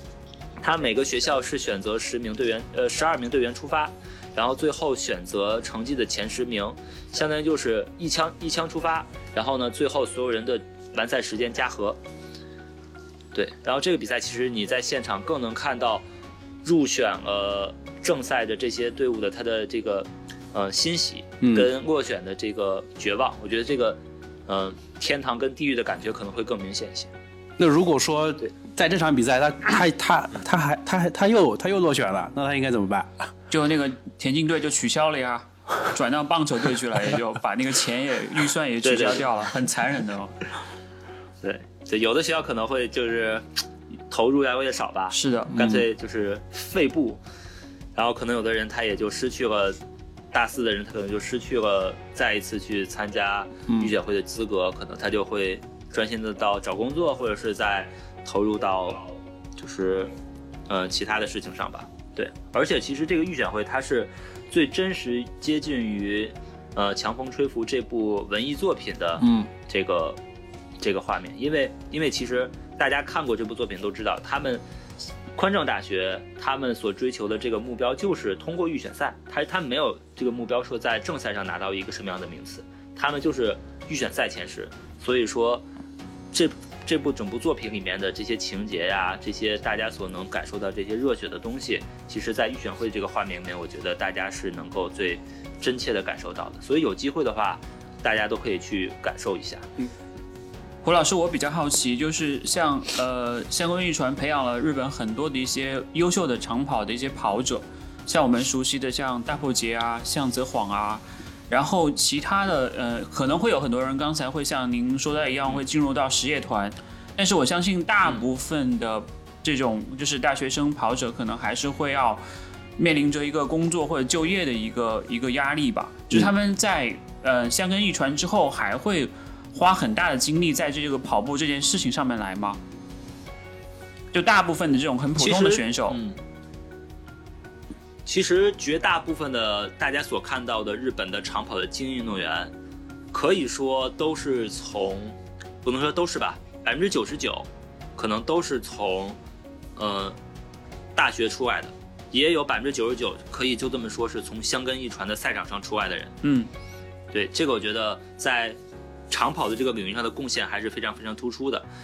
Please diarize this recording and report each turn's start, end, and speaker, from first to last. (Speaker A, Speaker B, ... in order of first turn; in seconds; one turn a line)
Speaker A: 0.6-12.0
Speaker A: 13.3-16.0
Speaker A: 16.6-27.1
Speaker B: 21.4-21.7
Speaker B: 27.6-33.3
Speaker C: 33.5-40.4
Speaker A: 38.8-39.2
Speaker A: 41.4-43.5
Speaker A: 44.1-47.2
Speaker C: 45.1-45.5
Speaker B: 45.5-45.8
Speaker A: 47.9-49.8
Speaker A: 50.3-60.1
Speaker A: 60.7-70.2
Speaker B: 69.2-69.5
Speaker A: 70.8-74.6
Speaker A: 75.3-85.6
Speaker A: 86.3-99.7
Speaker C: 100.8-122.2
Speaker C: 122.8-132.6
Speaker C: 134.1-136.0
Speaker A: 135.2-136.2
Speaker A: 138.1-142.5
Speaker A: 143.1-149.2
Speaker A: 149.8-150.2
Speaker A: 150.9-156.2
Speaker C: 156.2-156.5
Speaker A: 157.1-158.6
Speaker A: 159.1-161.7